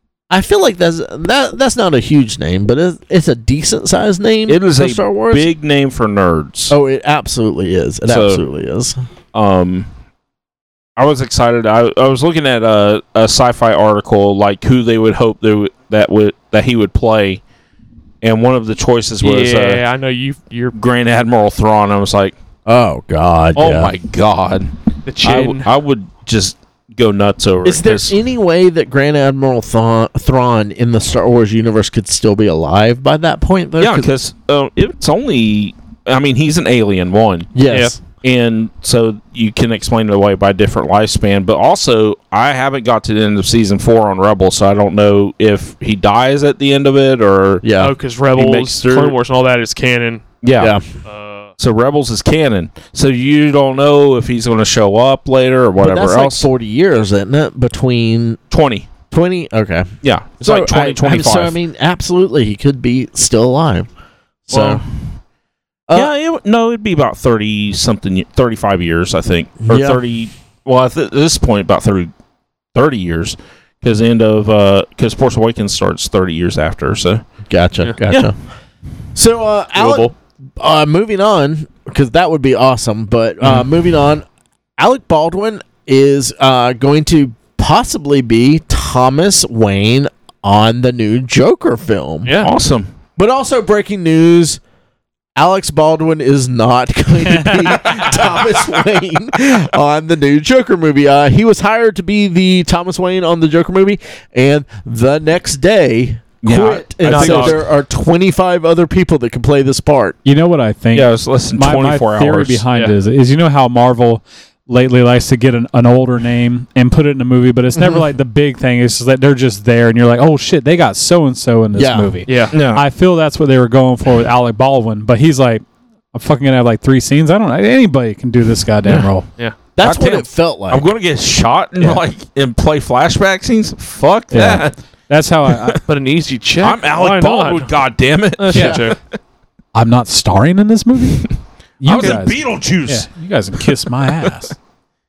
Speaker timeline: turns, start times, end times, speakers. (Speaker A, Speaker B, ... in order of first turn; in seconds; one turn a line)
Speaker A: 0.3-5.5
Speaker B: 4.5-6.8
Speaker A: 6.7-9.0
Speaker B: 8.1-8.4
Speaker B: 9.3-9.9
Speaker B: 11.0-17.4
Speaker B: 18.2-19.8
Speaker C: 19.2-20.8
Speaker B: 20.7-22.4
Speaker A: 22.7-23.9
Speaker B: 23.6-28.1
Speaker C: 25.1-25.7
Speaker A: 27.6-34.1
Speaker B: 33.8-47.6
Speaker A: 37.5-38.0
Speaker A: 47.6-48.0
Speaker C: 47.8-50.2
Speaker B: 48.3-49.2
Speaker B: 50.4-50.8
Speaker A: 50.6-50.8
Speaker C: 51.1-51.5
Speaker B: 51.6-56.5
Speaker A: 55.8-58.4
Speaker B: 58.5-58.9
Speaker A: 59.1-63.9
Speaker B: 60.0-61.6
Speaker A: 64.5-64.8
Speaker B: 64.5-64.8
Speaker B: 65.9-72.1
Speaker A: 69.6-70.0
Speaker B: 72.7-77.2
Speaker A: 77.5-78.4
Speaker A: 79.2-84.2
Speaker C: 79.8-80.1
Speaker B: 83.4-83.7
Speaker A: 84.8-92.3
Speaker C: 92.2-92.5
Speaker B: 92.4-92.9
Speaker A: 93.2-94.6
Speaker A: 95.4-110.2
Speaker D: 97.3-97.8
Speaker B: 106.4-107.6
Speaker C: 107.0-107.6
Speaker D: 110.2-129.3
Speaker B: 110.9-112.6
Speaker A: 117.8-118.0
Speaker A: 121.7-122.2
Speaker C: 122.3-122.6
Speaker B: 122.5-122.8
Speaker A: 129.8-130.9
Speaker B: 129.8-134.8
Speaker D: 134.3-135.8
Speaker B: 135.5-135.8
Speaker C: 135.9-137.7
Speaker B: 136.6-139.0
Speaker C: 138.4-139.0
Speaker D: 138.5-138.8
Speaker A: 138.5-138.9
Speaker D: 139.7-144.5
Speaker B: 141.8-143.1
Speaker B: 143.6-144.3